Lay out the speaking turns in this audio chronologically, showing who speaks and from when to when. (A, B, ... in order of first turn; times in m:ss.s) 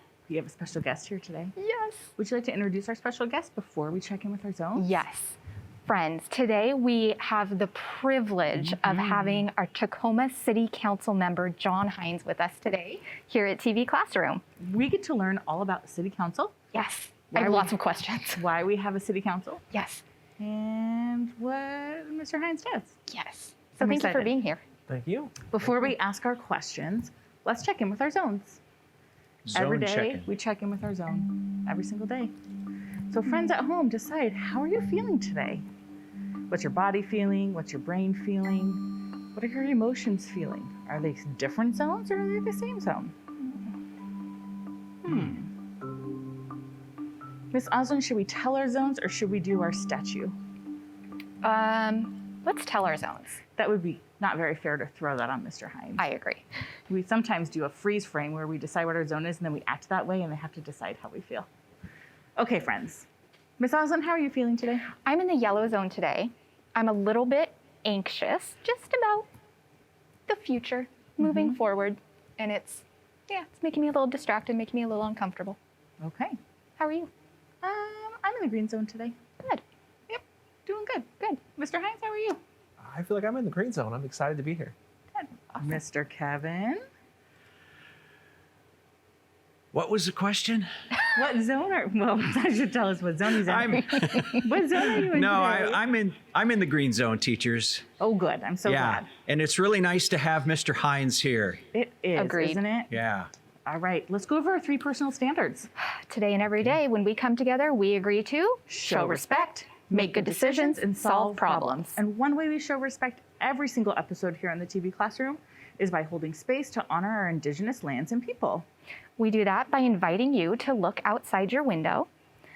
0:00.3-0:01.5 A
0:01.6-0:02.1 B
0:02.2-0:05.0 A
0:04.8-0:14.4 B
0:08.6-0:09.4 A
0:14.6-0:16.6 A
0:16.7-0:18.4 B
0:17.3-0:17.8 A
0:18.3-0:19.7 A
0:19.7-0:20.0 B
0:20.4-0:23.0 A
0:23.1-0:24.6 B
0:23.8-0:24.4 A
0:24.9-0:25.4 C
0:25.4-0:28.6 A
0:29.5-0:30.3 D
0:29.5-0:32.3 A
0:33.1-0:35.6 A
0:36.5-0:43.1 A
0:45.0-0:45.5 A
0:47.5-0:50.3 A
0:51.4-0:53.4 B
0:53.5-0:56.1 A
0:56.0-0:56.4 B
0:56.9-1:01.5 A
1:02.4-1:03.1 A
1:03.6-1:04.9 A
1:04.9-1:09.3 B
1:10.3-1:15.6 B
1:11.2-1:11.6 A
1:16.0-1:16.4 A
1:16.8-1:17.1 B
1:17.6-1:19.2 A
1:20.1-1:22.4 A
1:22.8-1:24.7 C
1:25.2-1:26.8 A
1:29.7-1:30.7 D
1:31.0-1:33.7 A
1:33.4-1:37.8 D
1:33.7-1:35.0 B
1:34.4-1:35.8 A
1:38.0-1:39.1 A
1:38.6-1:41.6 D
1:41.7-1:42.9 A
1:42.1-1:42.6 B
1:42.9-1:43.3 D
1:43.6-1:45.7 A
1:45.8-1:52.0 B
1:48.7-1:58.6 A
1:59.2-2:02.1 B